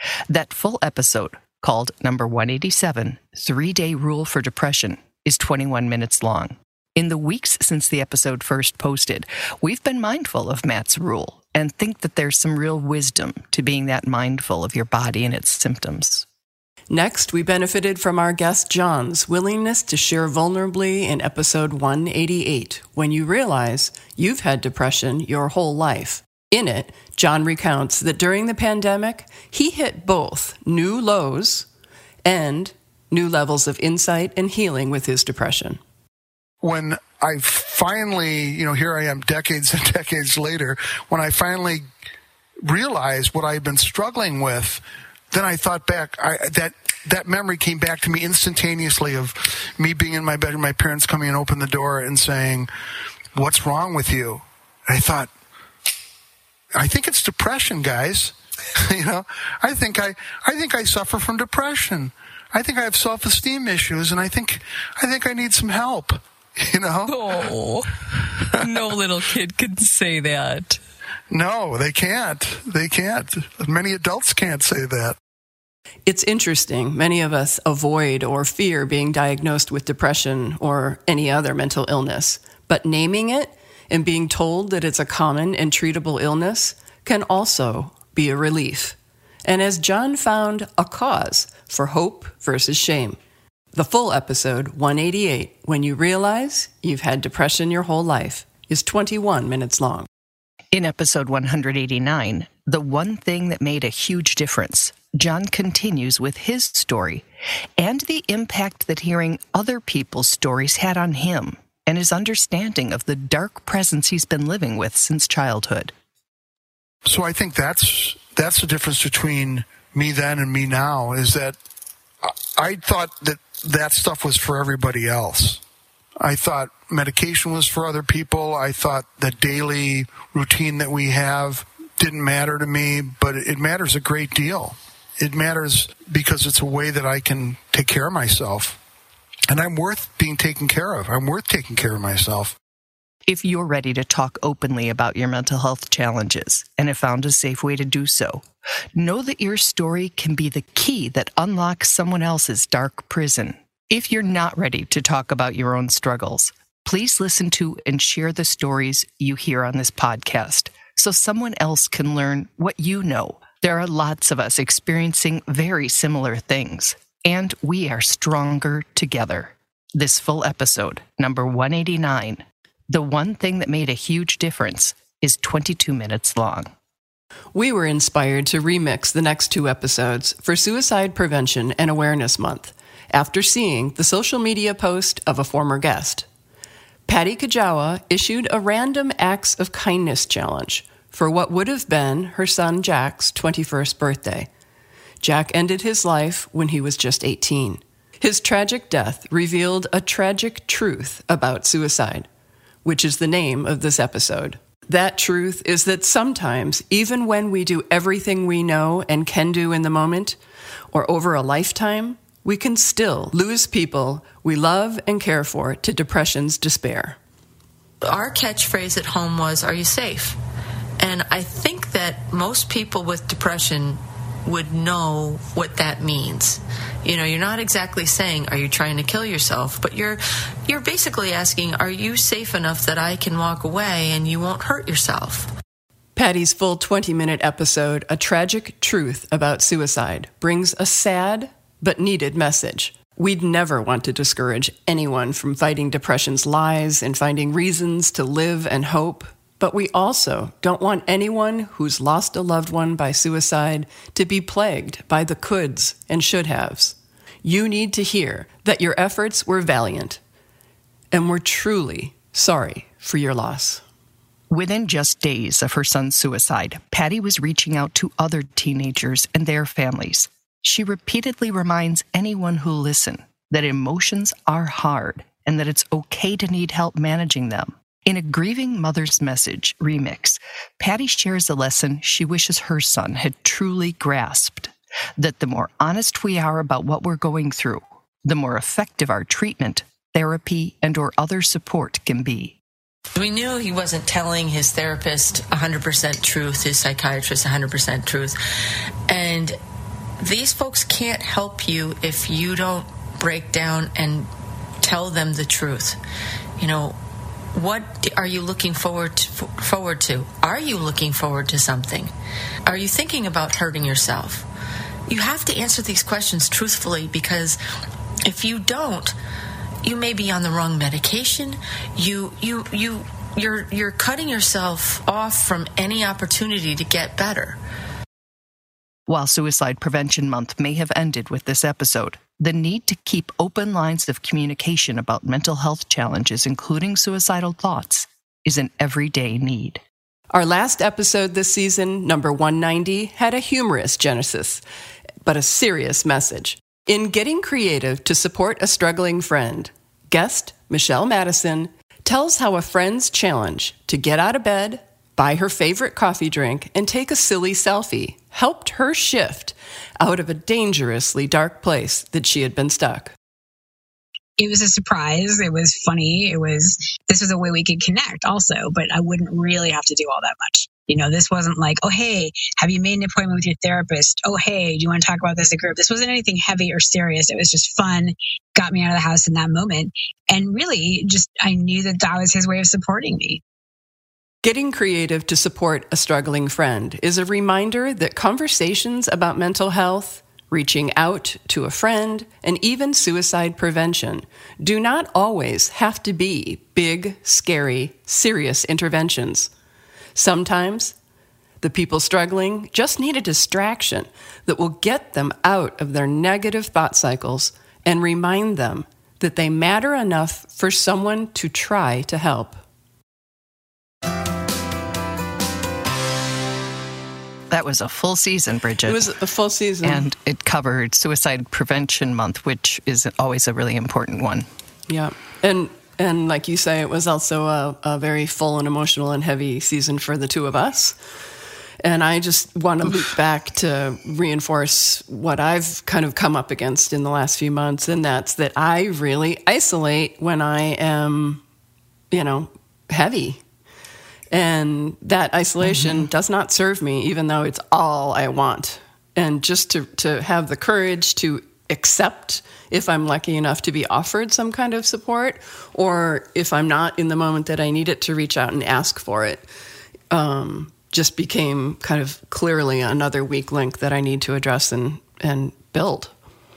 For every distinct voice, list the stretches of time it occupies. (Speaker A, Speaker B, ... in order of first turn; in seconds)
Speaker A: 0.3-16.3, 100.7-107.2, 107.8-115.9, 143.3-176.7, 264.5-292.6, 329.1-339.8, 417.5-419.1, 419.8-424.5, 445.6-446.1
Speaker B: 16.9-31.7, 32.2-35.8, 76.1-93.2, 93.7-100.1, 177.5-186.3, 187.1-194.5, 195.2-202.3, 202.8-210.4, 210.9-217.2, 236.2-260.2, 261.1-263.8, 340.3-344.6, 345.2-363.1, 384.4-399.5, 400.1-400.9, 401.6-412.6, 418.9-420.1, 424.9-431.0, 431.8-441.4, 442.1-443.4, 444.3-459.5, 460.1-466.1
Speaker C: 36.6-41.9, 42.7-52.7, 53.4-55.3, 56.8-67.2, 71.3-75.2, 117.0-121.6, 122.2-125.6, 126.2-138.8, 139.5-142.6
Speaker D: 218.0-220.4, 221.0-235.5, 293.1-298.4, 299.1-299.6, 300.2-304.3, 304.8-306.0, 306.6-307.0, 307.5-312.1, 312.7-314.4, 315.1-317.6, 318.3-319.1, 319.8-327.6
Speaker E: 364.4-383.4